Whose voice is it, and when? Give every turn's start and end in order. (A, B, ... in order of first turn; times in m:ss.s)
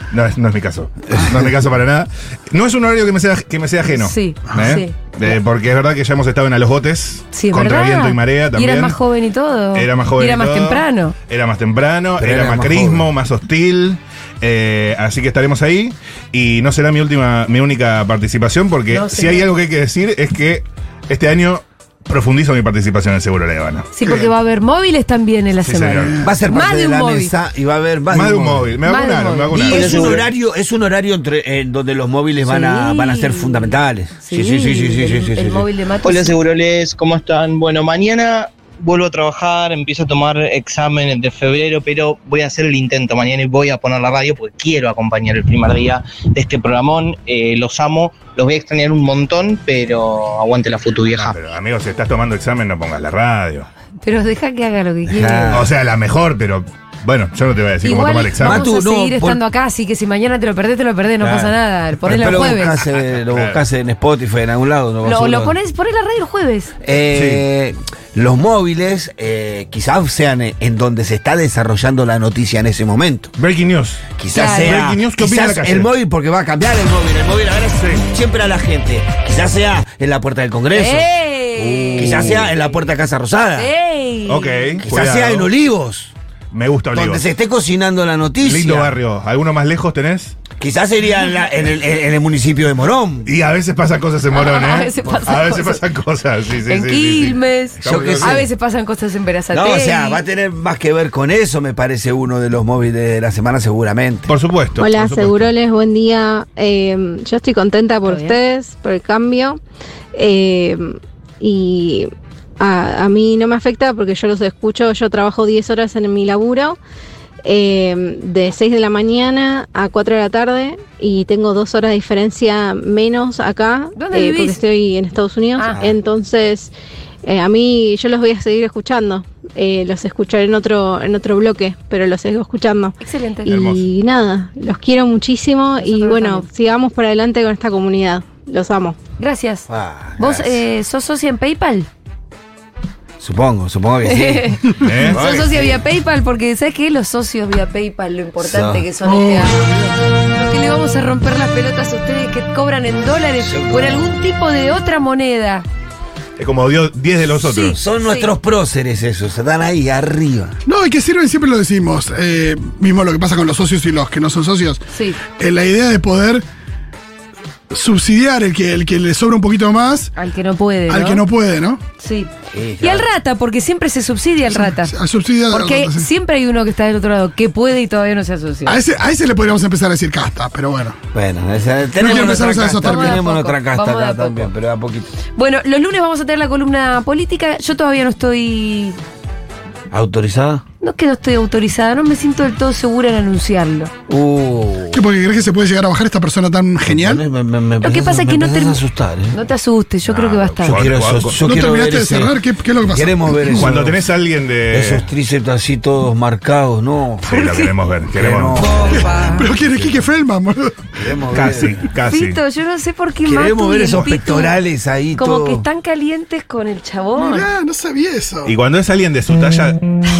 0:00.1-0:09.0 A
0:03.8-0:05.3 B
0:04.5-0:04.8 C
0:07.3-0:11.1 B
0:09.7-0:23.9 A
0:12.2-0:13.1 D
0:18.9-0:19.5 B
0:23.9-0:27.3 B
0:24.0-0:24.3 C
0:25.7-0:26.2 A
0:26.0-0:26.3 C
0:26.2-0:28.7 D
0:28.1-0:30.3 A
0:28.8-0:30.2 B
0:29.5-0:35.6 D
0:29.8-0:30.1 E
0:32.5-0:36.4 B
0:36.0-0:51.4 E
0:51.2-0:53.7 A
0:54.0-0:55.6 B
0:55.1-0:55.7 D
0:55.5-0:58.7 A
0:57.8-1:02.8 B
0:58.4-0:59.4 D
1:01.2-1:05.5 D
1:02.8-1:03.6 A
1:05.0-1:06.7 B
1:06.8-1:13.3 D
1:07.1-1:07.4 A
1:13.4-1:15.9 A
1:14.2-1:23.7 D
1:14.3-1:14.8 B
1:17.8-1:18.0 A
1:20.7-1:22.5 B
1:22.0-1:22.4 A
1:23.6-1:24.8 B
1:24.3-1:25.5 A
1:24.8-1:26.1 D
1:26.5-1:27.2 A
1:26.9-1:28.9 D
1:28.4-1:30.4 A
1:30.6-1:33.3 D
1:33.2-1:38.4 A
1:34.3-1:35.8 B
1:36.7-1:40.2 B
1:37.8-1:38.4 D
1:39.5-1:44.3 D
1:44.3-1:45.5 A
1:44.8-1:49.6 F
1:48.0-1:48.3 B
1:50.1-1:56.8 F
1:57.4-2:06.7 F
2:03.9-2:04.6 B
2:05.6-2:05.8 B
2:07.2-2:19.0 F
2:13.0-2:13.5 B
2:13.5-2:13.8 A
2:15.8-2:16.5 B
2:19.2-2:19.7 B
2:19.7-2:20.6 D
2:20.2-2:21.9 B
2:23.2-2:25.8 D
2:24.1-2:29.6 B
2:24.8-2:25.2 A
2:28.4-2:28.8 D
2:29.0-2:30.0 C
2:30.3-2:35.6 B
2:33.4-2:34.2 D
2:36.4-2:37.8 A
2:37.4-2:38.3 B
2:37.8-2:40.6 D
2:40.6-2:46.4 C
2:44.9-2:45.2 B
2:47.7-2:50.1 C
2:50.1-2:51.2 B
2:50.9-2:51.8 C
2:52.0-2:54.9 B
2:52.5-2:53.1 D
2:54.5-2:56.1 C
2:55.5-2:58.8 B
2:58.6-3:01.0 C
3:01.1-3:05.1 D
3:02.0-3:03.2 C
3:02.1-3:04.5 B
3:05.4-3:09.0 B
3:09.9-3:10.6 D
3:10.8-3:13.9 B
3:14.1-3:15.0 D
3:14.9-3:17.2 C
3:16.9-3:19.4 D
3:17.8-3:18.8 B
3:19.3-3:20.8 B
3:20.1-3:21.4 A
3:20.6-3:22.4 D
3:21.4-3:23.8 C
3:22.9-3:24.0 D
3:23.5-3:25.0 A
3:24.7-3:27.5 D
3:27.2-3:28.6 A
3:27.3-3:27.7 B
3:28.1-3:29.1 D
3:28.9-3:30.8 C
3:31.0-3:31.8 D
3:31.3-3:32.4 A
3:32.0-3:34.6 B
3:33.2-3:35.6 D
3:35.2-3:37.4 B
3:37.2-3:38.5 C
3:38.4-3:39.8 A